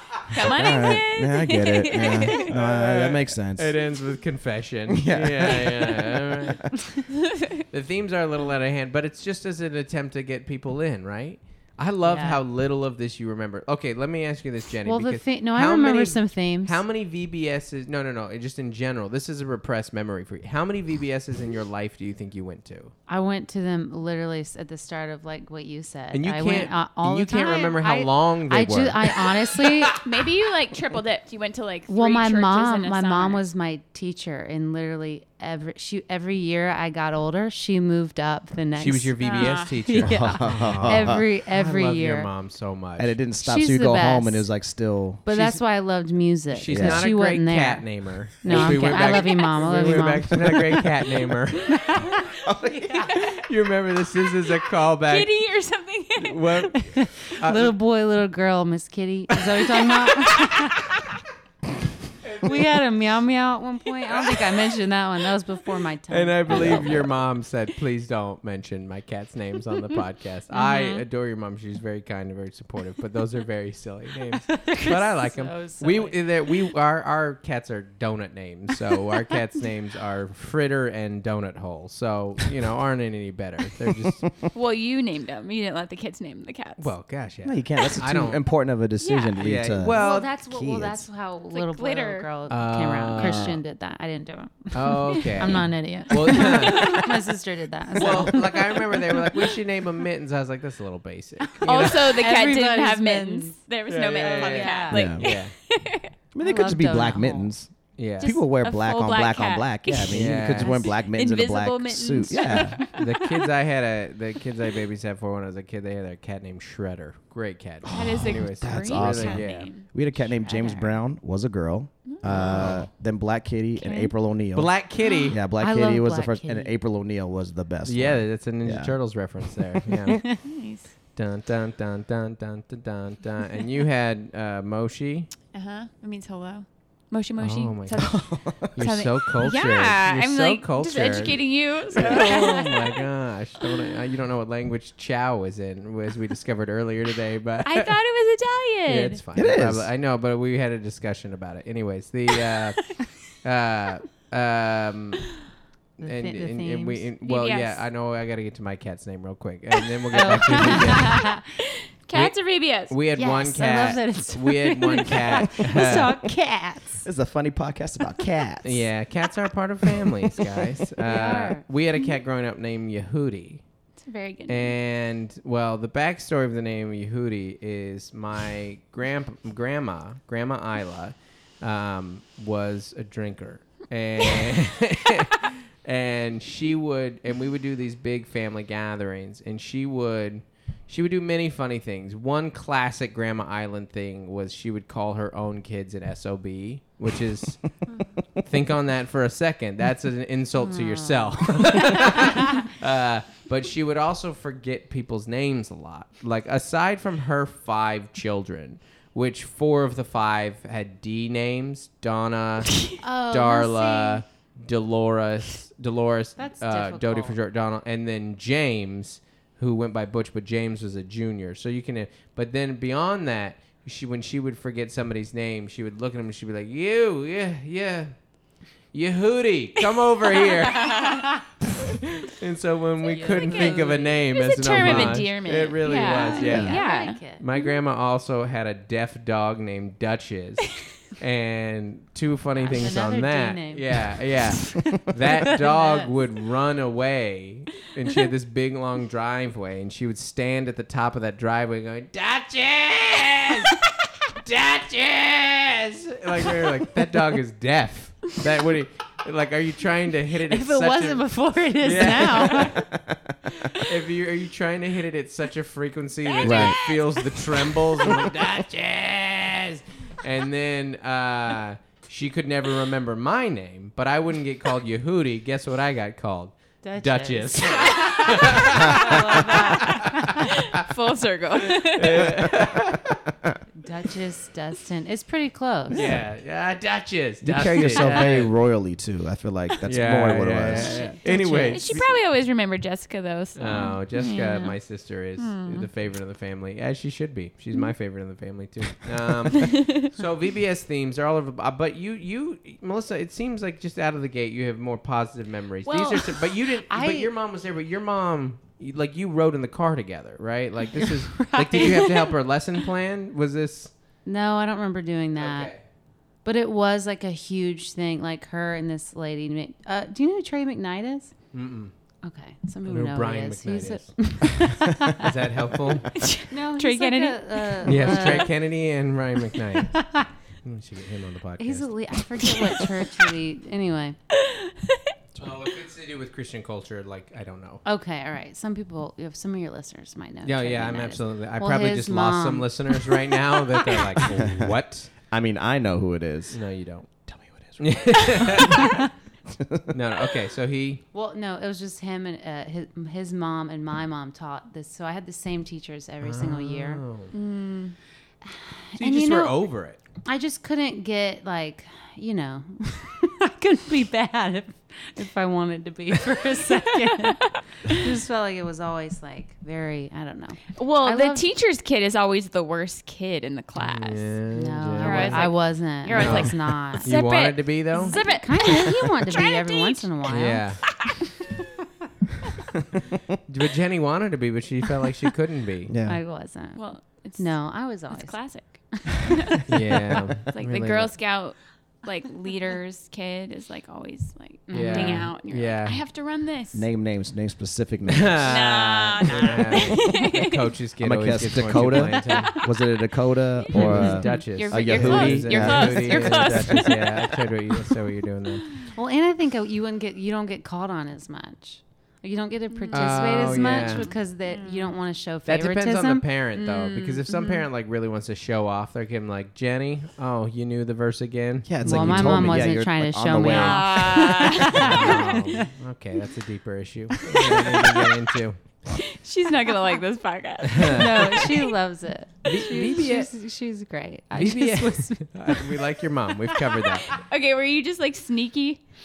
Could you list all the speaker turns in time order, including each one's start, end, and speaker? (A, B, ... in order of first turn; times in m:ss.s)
0:00.3-0:02.5 A
0:00.3-0:03.7 B
0:02.5-0:06.7 C
0:04.9-0:06.2 B
0:07.7-0:22.9 C
0:12.0-0:12.4 D
0:14.8-0:16.8 D
0:23.1-0:30.0 D
0:26.1-0:29.9 C
0:30.0-0:33.4 A
0:31.9-0:42.3 D
0:38.8-0:43.2 C
0:39.2-0:40.1 A
0:40.0-0:41.2 B
0:43.0-0:45.3 B
0:43.4-0:44.5 D
0:45.2-0:53.1 D
0:45.3-0:45.6 C
0:46.5-0:52.0 C
0:46.7-0:47.1 B
0:48.8-0:49.8 A
0:52.9-0:53.4 A
0:53.1-0:55.4 C
0:55.1-0:56.5 A
0:56.2-0:57.8 C
0:56.8-1:01.1 D
1:02.2-1:02.8 C
1:02.4-1:07.0 D
1:06.1-1:24.2 C
1:06.5-1:07.1 B
1:10.5-1:11.0 A
1:14.4-1:16.4 D
1:24.5-1:26.9 A
1:26.8-1:28.4 C
1:27.4-1:31.1 B
1:29.0-1:29.4 A
1:29.4-1:30.3 C
1:29.9-1:39.0 D
1:31.5-1:32.3 A
1:32.5-1:33.6 C
1:33.2-1:33.6 B
1:34.7-1:37.1 C
1:36.8-1:37.1 A
1:38.0-1:42.0 C
1:41.6-1:46.2 A
1:41.6-1:43.5 D
1:43.9-1:45.5 C
1:44.2-1:45.1 D
1:44.9-1:45.2 B
1:46.3-1:52.8 B
1:46.4-1:47.5 D
1:48.0-1:48.4 C
1:48.2-1:53.5 A
1:50.1-1:50.7 C
1:52.9-1:59.7 C
1:57.8-2:09.9 B
1:57.9-1:59.9 A
2:00.2-2:00.9 D
2:02.0-2:02.8 A
2:02.3-2:02.9 C
2:03.8-2:04.1 A
2:04.5-2:05.4 C
2:05.0-2:05.4 A
2:05.4-2:06.7 D
2:07.8-2:10.2 C
2:10.4-2:10.9 A
2:11.1-2:15.3 C
2:15.5-2:23.0 A
2:17.4-2:27.9 C
2:18.0-2:18.7 B
2:27.6-2:29.2 A
2:28.9-2:35.2 C
2:29.3-2:29.9 B
2:36.0-2:41.2 C
2:36.0-2:37.2 D
2:37.2-2:37.8 A
2:40.1-2:41.5 D
2:40.8-2:41.2 A
2:42.0-2:43.0 A
2:42.9-2:46.2 C
2:43.2-2:47.0 D
2:47.0-2:48.9 B
2:48.6-2:53.6 C
2:51.0-2:51.7 D
2:54.0-2:54.7 A
2:54.5-3:17.6 C
3:18.4-3:48.3 C
3:20.6-3:22.4 D
3:33.0-3:34.2 D
3:36.4-3:37.4 D
3:48.9-3:51.0 C
3:50.6-3:51.3 A
3:52.0-3:56.8 C
3:53.0-3:54.2 D
3:53.1-3:57.2 A
3:54.8-3:55.2 B
3:55.9-3:57.4 D
3:57.4-4:13.8 C
4:02.5-4:06.1 D
4:14.4-4:22.8 C
4:20.5-4:22.9 D
4:22.7-4:23.3 B
4:23.8-4:40.5 C
4:26.3-4:27.2 A
4:26.4-4:26.8 B
4:36.8-4:40.4 D
4:37.8-4:39.3 A
4:40.6-4:42.3 A
4:41.8-4:43.0 C
4:42.3-4:43.5 B
4:43.8-4:46.2 D
4:45.9-4:48.5 C
4:45.9-4:46.2 B
4:47.4-4:51.0 B
4:48.0-4:48.2 D
4:49.8-4:52.0 C
4:50.8-4:54.8 A
4:50.8-4:52.0 D
4:53.6-5:13.9 C
4:55.4-4:55.9 A
4:59.5-5:00.1 A
5:05.9-5:06.4 A
5:06.9-5:07.3 D
5:11.0-5:12.4 D
5:14.2-5:15.7 D
5:15.4-5:15.8 C
5:16.4-5:21.3 D
5:21.5-5:21.9 C
5:22.2-5:25.3 D
5:22.8-5:24.1 C
5:25.0-5:26.1 C
5:26.2-5:28.4 A
5:26.5-5:28.6 D
5:27.8-5:30.0 C
5:29.9-5:30.3 D
5:30.6-5:31.9 C
5:31.6-5:34.2 D
5:34.4-5:35.0 A
5:35.4-5:37.8 C
5:37.8-5:43.0 D
5:40.4-5:45.1 C
5:44.3-5:44.7 B
5:45.3-5:46.6 B
5:46.5-5:47.1 C
5:47.2-5:48.8 B
5:47.8-5:49.0 C
5:49.9-5:51.0 C
5:51.1-5:57.1 D
5:56.2-5:57.3 C
5:57.3-5:58.0 A
5:58.4-5:59.7 D
5:59.0-6:00.0 C
6:00.2-6:11.4 D
6:06.9-6:07.6 A
6:10.7-6:14.4 A
6:13.8-6:15.5 C
6:14.5-6:17.1 D
6:15.0-6:20.3 A
6:16.1-6:18.3 C
6:17.9-6:20.7 D
6:20.3-6:20.8 C
6:20.8-6:21.1 A
6:23.5-6:25.9 C
6:25.9-6:26.2 B
6:26.0-6:29.3 D
6:26.7-6:29.6 A
6:29.7-6:31.1 C
6:30.5-6:36.9 A
6:34.7-6:35.3 D
6:34.7-6:36.0 C
6:36.7-6:38.5 B
6:38.1-6:42.5 C
6:38.4-6:40.7 A
6:41.0-6:46.4 B
6:43.6-6:47.5 A
6:43.7-6:48.6 C
6:46.3-6:47.1 D
6:48.9-6:56.3 D
6:52.7-6:55.0 A
6:52.9-6:54.1 C
6:55.4-7:02.7 C
6:56.5-6:57.7 A
7:01.6-7:04.0 B
7:01.8-7:05.7 D
7:03.4-7:05.4 A
7:04.7-7:08.6 C
7:07.3-7:07.8 D
7:08.9-7:11.7 A
7:10.7-7:11.5 C
7:10.9-7:15.8 D
7:12.4-7:13.3 C
7:14.3-7:17.1 C
7:16.7-7:18.8 A